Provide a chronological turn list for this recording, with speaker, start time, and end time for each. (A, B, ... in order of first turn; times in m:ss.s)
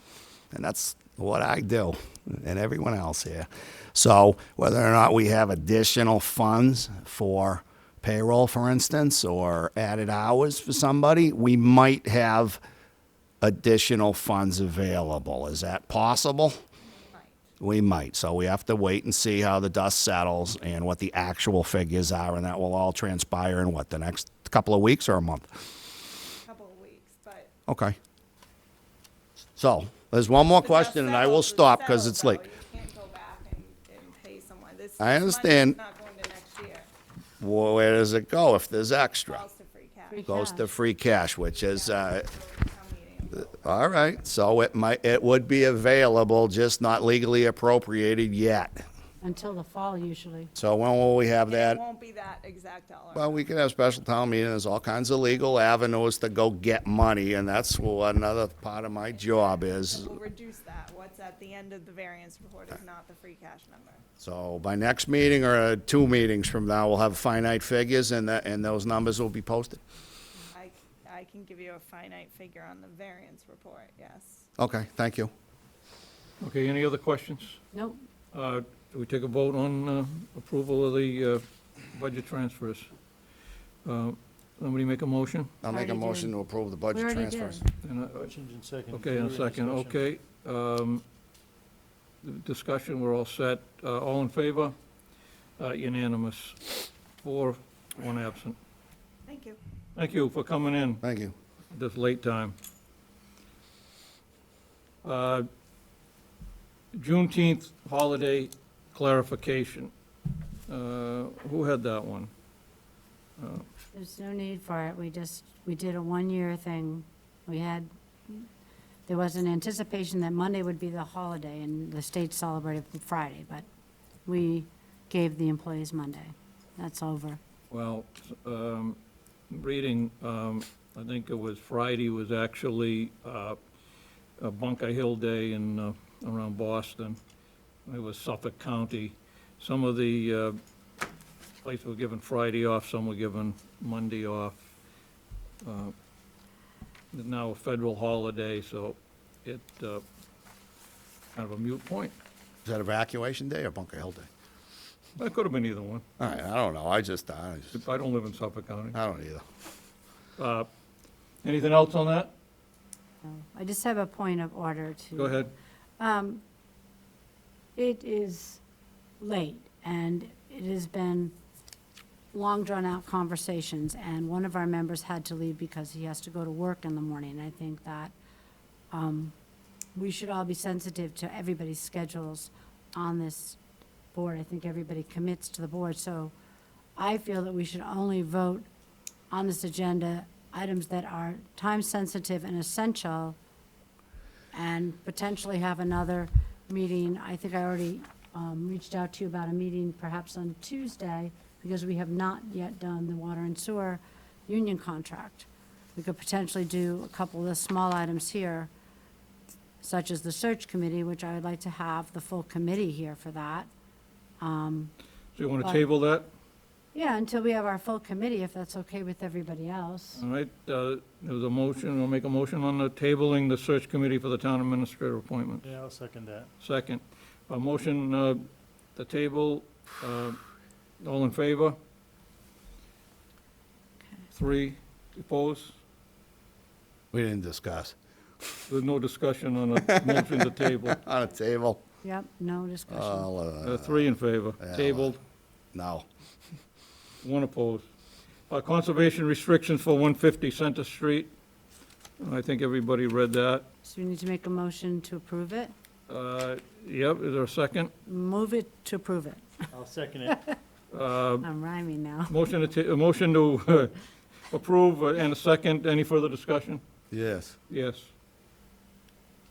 0:00.5-0:12.6 A
0:13.4-0:16.6 A
0:16.9-0:17.4 B
0:17.6-0:25.6 A
0:26.4-0:27.5 B
0:27.7-0:28.0 A
0:29.6-0:32.4 A
0:30.5-0:36.9 B
0:35.0-0:35.8 A
0:37.4-0:39.4 A
0:39.2-0:40.4 B
0:40.1-0:40.7 C
0:40.2-0:42.3 A
0:41.4-0:44.0 B
0:43.4-0:48.8 A
0:49.2-0:50.5 C
0:50.5-0:51.8 A
0:51.5-0:53.5 B
0:53.1-1:00.2 A
0:59.0-1:04.0 B
1:04.2-1:09.8 A
1:10.5-1:14.5 B
1:14.6-1:15.3 A
1:16.4-1:17.6 D
1:17.7-1:18.0 C
1:18.3-1:22.9 D
1:23.8-1:25.5 D
1:25.6-1:27.6 A
1:25.7-1:26.3 C
1:26.9-1:27.6 C
1:27.8-1:28.3 D
1:28.1-1:30.0 E
1:28.9-1:31.0 D
1:32.2-1:34.7 D
1:35.6-1:36.7 D
1:37.2-1:38.6 D
1:39.2-1:39.6 B
1:39.9-1:41.0 D
1:41.0-1:41.3 A
1:41.7-1:42.6 D
1:45.0-1:45.5 D
1:46.9-1:49.9 D
1:50.7-1:52.3 D
1:53.4-1:53.6 D
1:53.9-1:58.4 C
1:59.1-2:03.6 C
2:04.2-2:07.4 C
2:07.7-2:09.0 D
2:09.5-2:13.6 D
2:14.4-2:17.2 D
2:17.8-2:20.6 D
2:21.6-2:24.6 D
2:25.6-2:25.9 D
2:27.1-2:30.0 D
2:31.3-2:32.1 D
2:32.6-2:34.3 A
2:35.2-2:36.0 D
2:36.2-2:37.8 A
2:37.7-2:39.0 D
2:38.9-2:39.4 A
2:40.4-2:40.7 D
2:41.4-2:42.3 D
2:43.2-2:46.4 C
2:45.1-2:45.5 D
2:47.8-2:48.6 C
2:49.2-2:51.3 C
2:52.3-2:58.1 C
2:58.9-2:59.3 C
2:59.9-3:03.6 C
3:04.1-3:06.3 C
3:07.0-3:08.7 C
3:09.3-3:13.4 C
3:14.5-3:28.7 C
3:29.8-3:33.7 C
3:34.4-3:34.9 C
3:35.3-3:36.3 D
3:36.9-3:40.2 C
3:40.2-3:45.7 D
3:45.6-3:46.5 E
3:46.6-3:50.4 D
3:51.0-3:51.8 D
3:54.3-3:55.8 D
3:57.1-3:58.6 A
3:58.7-4:01.0 D
4:00.0-4:00.3 A
4:00.9-4:01.8 A
4:02.0-4:03.3 C
4:02.9-4:04.1 A
4:03.6-4:05.2 D
4:04.6-4:05.1 A
4:05.7-4:06.0 A
4:07.2-4:07.8 D
4:08.5-4:11.3 D
4:12.2-4:13.6 D
4:13.8-4:15.7 C
4:16.1-4:17.9 D
4:18.0-4:19.7 C
4:19.7-4:20.4 E
4:20.9-4:21.5 D
4:21.4-4:22.3 C
4:22.3-4:24.0 D
4:24.5-4:26.8 D
4:27.1-4:27.6 A
4:27.7-4:28.1 D